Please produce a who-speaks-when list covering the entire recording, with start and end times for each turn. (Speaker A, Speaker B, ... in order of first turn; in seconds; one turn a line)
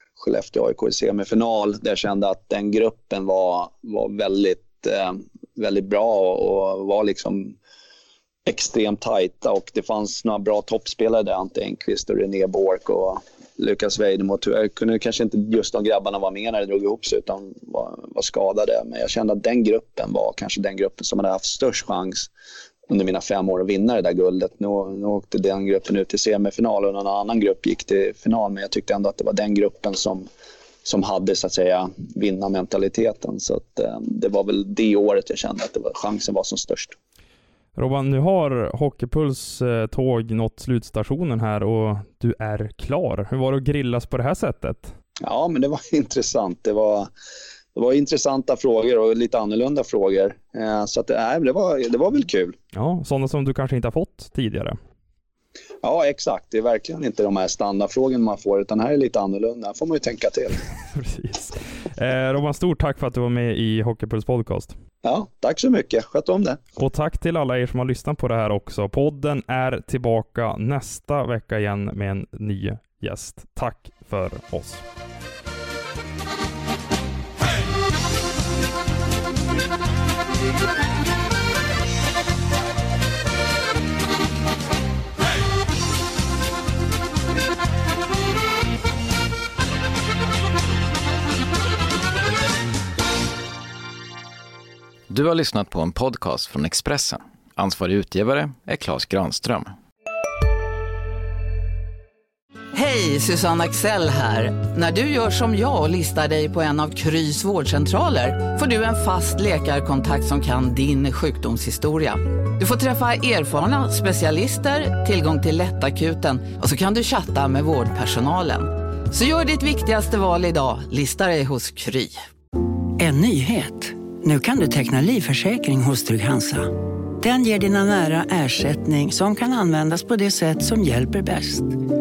Speaker A: 0.2-7.5
Speaker A: 8.4-22.3
Speaker A: 22.9-30.3
Speaker A: 30.8-37.0
Speaker B: 37.7-44.9
Speaker A: 45.2-47.1
Speaker A: 47.7-52.5
Speaker B: 52.7-54.8
Speaker A: 55.8-60.6
Speaker B: 60.9-64.8
Speaker A: 65.0-66.6
Speaker B: 66.8-74.8
Speaker C: 95.1-99.8
Speaker D: 102.7-122.2
Speaker E: 123.0-131.8